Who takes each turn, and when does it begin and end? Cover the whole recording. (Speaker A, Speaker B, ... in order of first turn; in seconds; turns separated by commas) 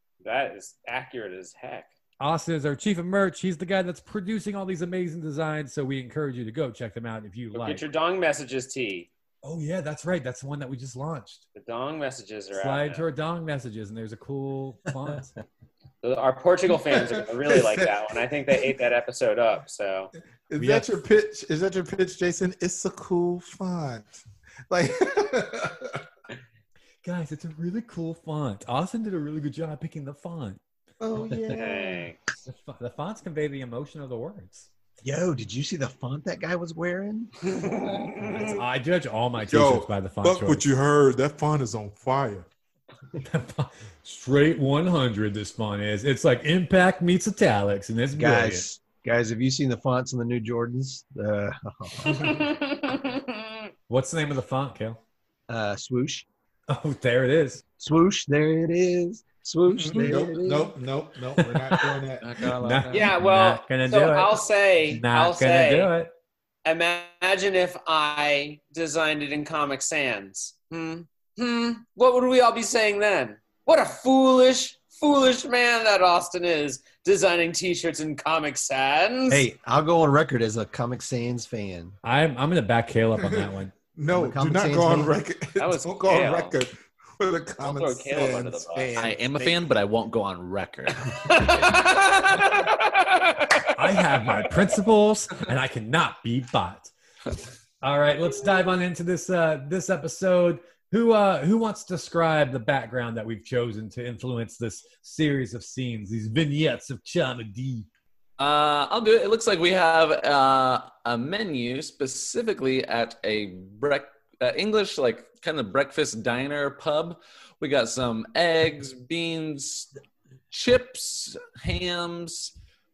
Speaker A: 0.2-1.9, Speaker B: 2.2-7.8, Speaker A: 7.5-9.1, Speaker B: 9.4-11.4, Speaker A: 11.6-13.1, Speaker B: 12.5-15.4, Speaker A: 16.0-20.1, Speaker C: 17.1-18.0, Speaker C: 20.5-26.0, Speaker B: 20.6-20.9, Speaker B: 27.0-30.6, Speaker C: 31.0-32.1, Speaker A: 31.5-32.2, Speaker B: 32.5-34.7, Speaker D: 35.0-37.3, Speaker A: 37.5-38.6, Speaker B: 38.2-40.7, Speaker C: 39.4-42.5, Speaker B: 43.2-48.6, Speaker D: 48.1-52.4, Speaker A: 52.0-53.6, Speaker B: 53.9-55.0, Speaker D: 55.5-56.3, Speaker B: 56.7-57.6, Speaker D: 57.8-60.7, Speaker C: 59.7-62.5, Speaker B: 61.6-66.1, Speaker E: 62.2-63.1, Speaker A: 62.9-65.9, Speaker A: 66.7-79.5, Speaker D: 79.3-82.0, Speaker B: 82.0-83.8, Speaker C: 83.2-88.8, Speaker D: 84.1-85.2, Speaker A: 85.6-86.6, Speaker A: 87.6-88.9, Speaker D: 88.8-89.6, Speaker E: 89.0-91.4, Speaker A: 91.2-93.7, Speaker B: 93.8-96.9, Speaker B: 97.8-107.9, Speaker E: 108.4-119.9, Speaker E: 120.5-122.5